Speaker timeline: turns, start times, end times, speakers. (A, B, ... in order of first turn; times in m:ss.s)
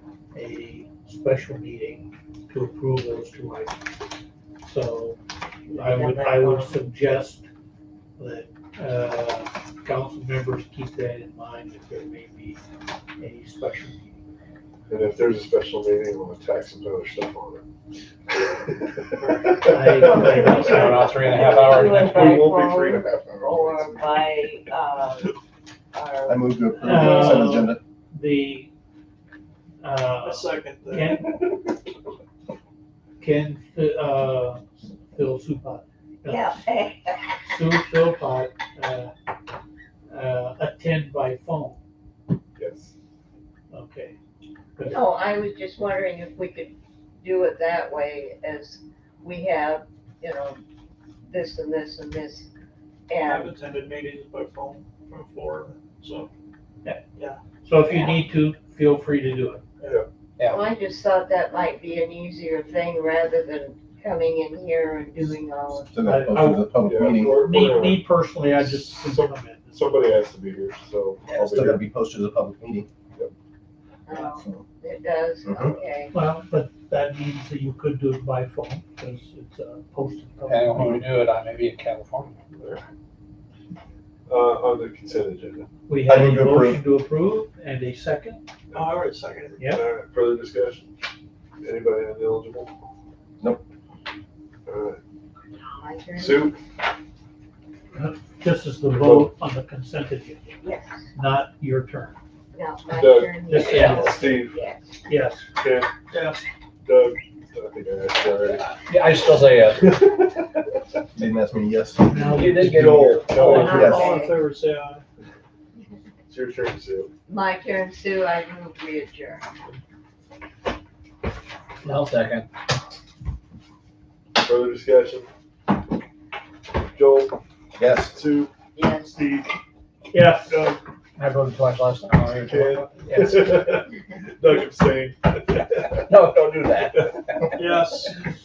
0:00.3-0:03.8 A
0:04.6-0:07.4 A
0:05.7-0:06.7 B
0:08.2-0:12.6 A
0:13.2-0:14.2 A
0:14.9-0:17.6 C
0:18.4-0:24.0 C
0:19.6-0:21.2 A
0:20.2-0:25.3 B
0:20.7-0:22.6 D
0:25.9-0:27.5 B
0:26.3-0:27.8 E
0:26.8-0:28.7 A
0:29.8-0:31.4 A
0:30.2-0:31.4 F
0:33.2-0:36.6 A
0:36.2-0:37.2 B
0:37.4-0:39.1 A
0:40.1-0:41.8 A
0:42.6-0:42.9 C
0:43.7-0:44.2 A
0:44.8-0:45.0 A
0:44.9-0:50.6 B
0:51.3-0:52.5 B
0:53.1-0:53.5 B
0:53.2-0:56.3 F
0:57.6-0:59.6 A
0:57.8-0:58.2 B
1:00.4-1:00.6 D
1:00.4-1:05.9 B
1:05.9-1:07.4 E
1:06.0-1:06.7 A
1:06.8-1:11.8 C
1:07.2-1:10.0 A
1:11.3-1:12.9 E
1:14.1-1:16.1 B
1:15.4-1:15.8 E
1:16.1-1:21.1 A
1:20.5-1:22.4 D
1:22.5-1:22.8 C
1:24.3-1:25.7 C
1:25.9-1:28.4 A
1:26.0-1:26.8 E
1:28.7-1:29.6 F
1:29.6-1:29.8 A
1:29.6-1:30.9 C
1:31.6-1:32.7 C
1:34.7-1:35.0 C
1:35.6-1:36.5 B
1:36.2-1:36.6 C
1:37.9-1:40.6 A
1:38.9-1:39.3 C
1:40.6-1:41.1 B
1:41.1-1:42.2 A
1:42.5-1:45.0 B
1:42.9-1:44.6 C
1:43.5-1:44.4 A
1:45.0-1:45.5 A
1:45.6-1:45.9 C
1:46.1-1:46.4 F
1:46.8-1:48.7 C
1:48.4-1:50.1 D
1:50.0-1:50.6 C
1:51.1-1:54.1 E
1:52.1-1:53.7 A
1:52.3-1:53.9 D
1:52.7-1:53.9 C
1:53.4-1:55.0 F
1:53.5-1:54.4 B
1:56.3-1:57.1 C
1:57.3-1:59.5 B
2:01.8-2:02.5 D
2:04.4-2:05.3 C
2:06.9-2:07.4 C
2:07.8-2:08.2 E
2:08.0-2:08.5 C
2:08.7-2:09.1 B
2:09.1-2:09.4 C
2:10.1-2:10.6 A
2:10.5-2:10.8 C
2:11.2-2:13.6 D
2:12.4-2:16.0 C
2:16.1-2:17.6 D
2:17.6-2:18.3 F